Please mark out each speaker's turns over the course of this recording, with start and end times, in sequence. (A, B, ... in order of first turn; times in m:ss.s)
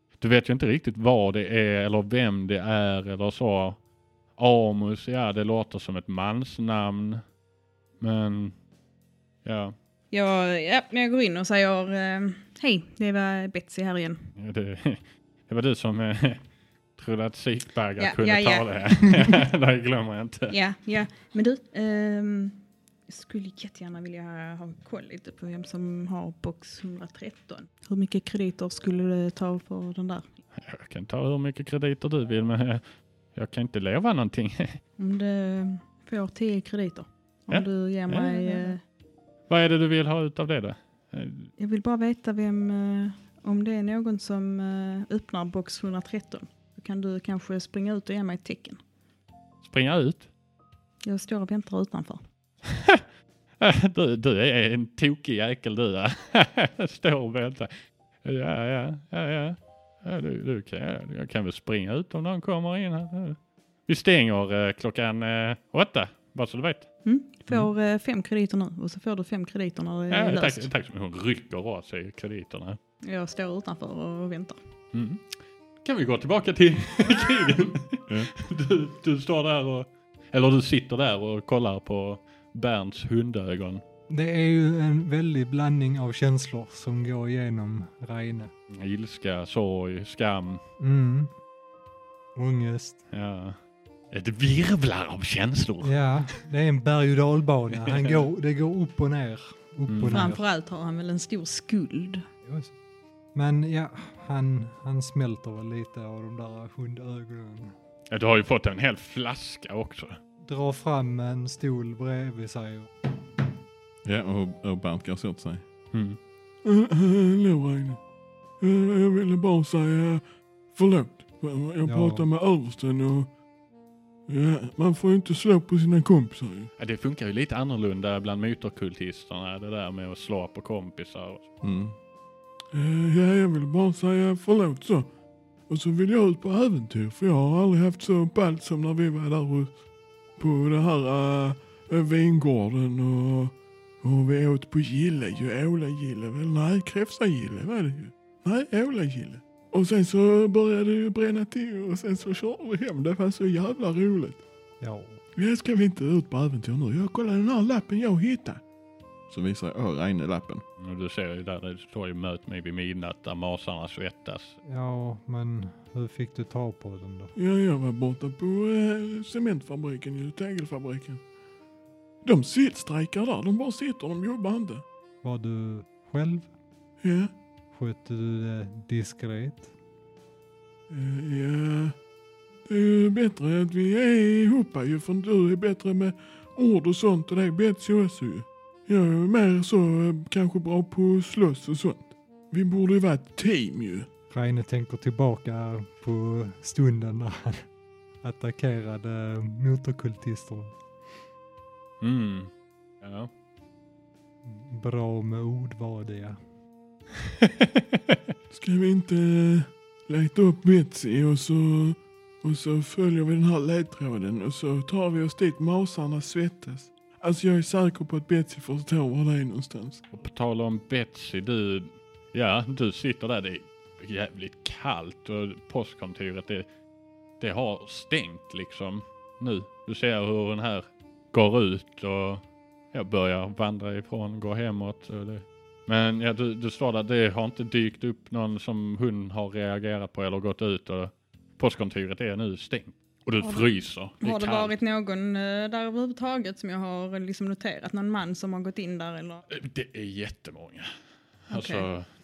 0:00.2-0:03.8 A
0:04.4-0:07.2 A
0:08.0-0:08.5 A
0:09.4-0:09.7 A
0:10.1-0:14.2 B
0:14.4-0:16.4 A
0:17.0-0:20.5 A
0:18.0-0:18.8 B
0:20.5-0:30.3 B
0:30.6-0:32.8 A
0:33.3-0:34.8 A
0:35.0-0:38.8 B
0:37.5-0:38.7 A
0:39.5-0:41.5 A
0:41.6-0:48.8 B
0:49.6-0:50.3 A
0:51.0-0:52.2 B
0:52.7-0:53.0 A
0:53.6-0:57.7 A
0:58.2-1:06.9 A
1:07.0-1:10.7 B
1:10.1-1:12.8 A
1:13.0-1:14.6 B
1:14.9-1:23.8 A
1:24.1-1:28.5 C
1:28.7-1:30.6 A
1:30.8-1:31.3 C
1:32.3-1:33.0 C
1:33.1-1:33.6 A
1:34.1-1:36.1 A
1:35.8-1:40.4 C
1:37.8-1:38.2 A
1:39.9-1:40.3 A
1:40.1-1:42.2 B
1:42.4-1:42.7 C
1:43.3-1:47.7 C
1:48.1-1:50.2 A
1:50.4-1:52.9 C
1:54.0-1:55.6 D
1:55.9-1:56.2 A
1:56.6-1:58.0 E
1:58.6-2:03.3 E
2:01.8-2:02.3 C
2:04.3-2:06.7 E
2:06.8-2:11.5 A
2:11.6-2:12.0 D
2:12.7-2:15.1 E
2:15.7-2:19.7 E
2:20.4-2:34.4 E
2:34.8-2:35.2 C
2:35.3-2:38.6 E
2:39.3-2:40.6 D
2:40.8-2:44.6 A
2:44.6-2:47.3 C
2:47.3-2:51.2 E
2:52.2-2:54.8 E
2:55.2-2:56.5 C
2:57.0-2:57.3 E
2:57.7-2:59.7 C
3:00.9-3:02.0 E
3:02.6-3:14.1 E
3:14.3-3:17.7 C
3:18.2-3:20.8 C
3:22.0-3:22.5 A
3:23.0-3:23.3 A
3:24.4-3:26.4 C
3:27.4-3:28.2 A
3:28.5-3:40.0 E
3:40.1-3:46.6 A
3:47.4-4:04.8 A
4:03.4-4:03.7 B
4:04.2-4:09.4 B
4:09.5-4:10.9 A
4:11.5-4:12.1 A
4:11.5-4:11.9 B